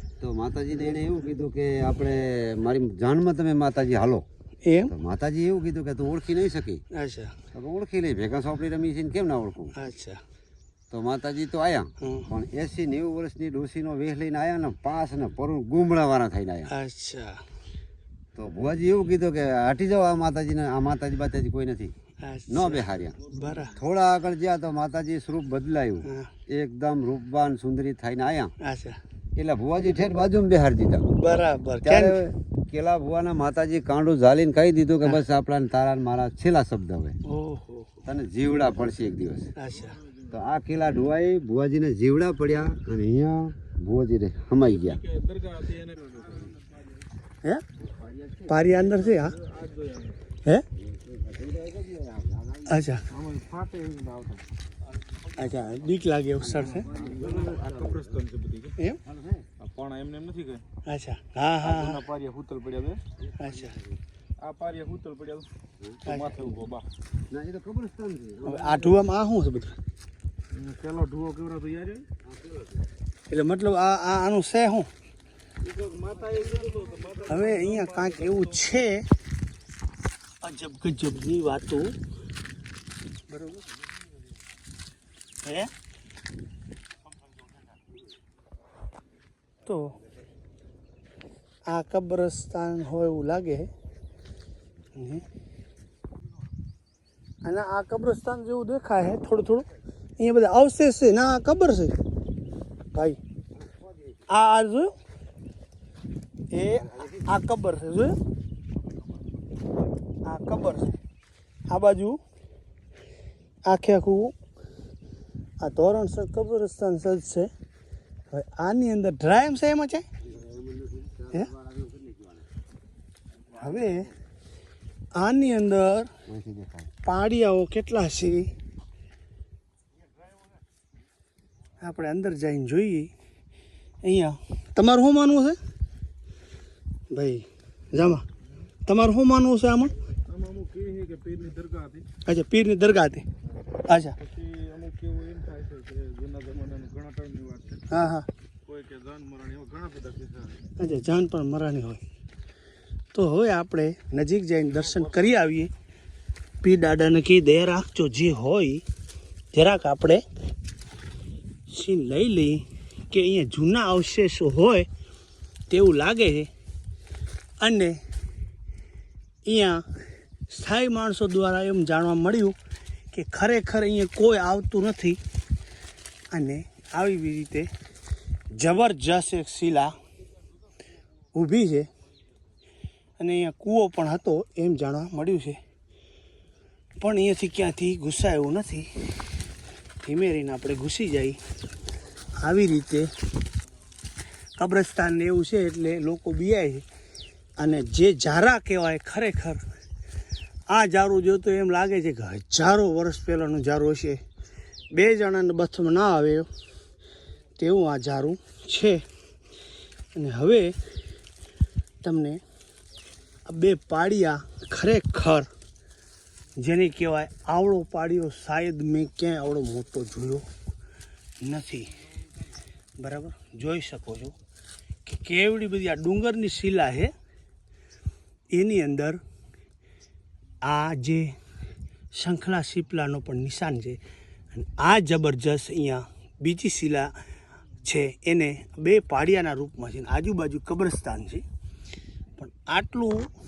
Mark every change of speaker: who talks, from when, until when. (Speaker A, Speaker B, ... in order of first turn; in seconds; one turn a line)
Speaker A: 0.2-4.2
Speaker B: 4.7-4.9
Speaker A: 4.9-6.8
Speaker B: 6.9-7.3
Speaker A: 7.5-9.8
Speaker B: 9.8-10.2
Speaker A: 10.9-16.7
Speaker B: 12.0-12.3
Speaker B: 16.7-17.4
Speaker A: 18.4-21.9
Speaker B: 22.2-23.8
Speaker A: 22.5-23.2
Speaker A: 23.7-28.6
Speaker B: 26.1-26.3
Speaker B: 28.6-29.0
Speaker A: 29.4-31.1
Speaker B: 31.1-32.2
Speaker A: 31.8-37.2
Speaker B: 37.2-38.0
Speaker A: 38.0-39.5
Speaker B: 39.6-40.0
Speaker A: 40.3-45.1
Speaker C: 44.8-46.5
Speaker A: 47.8-48.5
Speaker B: 48.5-49.4
Speaker C: 49.4-50.2
Speaker A: 50.8-52.8
Speaker B: 52.7-53.1
Speaker C: 53.1-54.5
Speaker B: 55.4-56.9
Speaker A: 56.5-58.2
Speaker C: 56.9-58.8
Speaker A: 59.0-59.5
Speaker C: 59.6-60.6
Speaker B: 60.9-62.1
Speaker C: 61.6-63.0
Speaker A: 63.3-63.9
Speaker B: 63.4-63.8
Speaker C: 64.4-65.5
Speaker B: 66.0-66.6
Speaker C: 66.1-66.9
Speaker A: 67.3-68.8
Speaker B: 68.5-69.8
Speaker C: 70.5-72.1
Speaker A: 72.2-72.8
Speaker B: 73.3-74.9
Speaker C: 75.6-78.4
Speaker B: 77.2-79.1
Speaker B: 80.4-82.0
Speaker B: 83.3-83.7
Speaker B: 85.4-85.7
Speaker B: 89.7-90.0
Speaker B: 91.7-93.7
Speaker B: 95.0-95.3
Speaker B: 97.5-102.0
Speaker B: 102.9-103.2
Speaker B: 104.3-104.9
Speaker B: 106.5-108.2
Speaker B: 110.2-111.0
Speaker B: 111.7-112.2
Speaker B: 113.7-114.3
Speaker B: 115.6-117.5
Speaker B: 118.3-120.1
Speaker A: 120.2-122.5
Speaker B: 123.5-124.1
Speaker B: 125.2-126.1
Speaker A: 126.3-126.9
Speaker B: 127.0-128.5
Speaker B: 131.8-133.1
Speaker B: 134.0-135.6
Speaker B: 137.1-138.3
Speaker B: 138.9-139.9
Speaker C: 140.3-142.1
Speaker B: 142.2-143.3
Speaker B: 143.9-144.2
Speaker C: 144.2-147.9
Speaker B: 147.9-148.3
Speaker C: 148.7-150.6
Speaker B: 150.8-152.0
Speaker B: 153.1-155.7
Speaker B: 156.6-158.9
Speaker B: 159.5-160.2
Speaker B: 161.7-164.9
Speaker B: 165.7-166.5
Speaker B: 167.6-168.0
Speaker B: 169.4-169.9
Speaker B: 170.5-172.6
Speaker B: 173.1-175.2
Speaker B: 176.3-177.7
Speaker B: 178.6-179.9
Speaker B: 181.3-181.9
Speaker B: 183.2-185.6
Speaker B: 187.0-189.4
Speaker B: 190.0-191.4
Speaker B: 192.4-193.1
Speaker B: 194.6-196.9
Speaker B: 197.6-199.6
Speaker B: 200.7-204.2
Speaker B: 204.9-206.5
Speaker B: 207.6-209.0
Speaker B: 210.1-210.8
Speaker B: 212.0-212.4
Speaker B: 213.5-215.5
Speaker B: 216.6-220.5
Speaker B: 221.4-222.0
Speaker B: 223.0-224.3
Speaker B: 225.1-227.1
Speaker B: 228.5-229.2
Speaker B: 230.6-231.4
Speaker B: 232.1-234.0
Speaker B: 234.5-237.1
Speaker B: 237.8-241.4
Speaker B: 242.4-243.3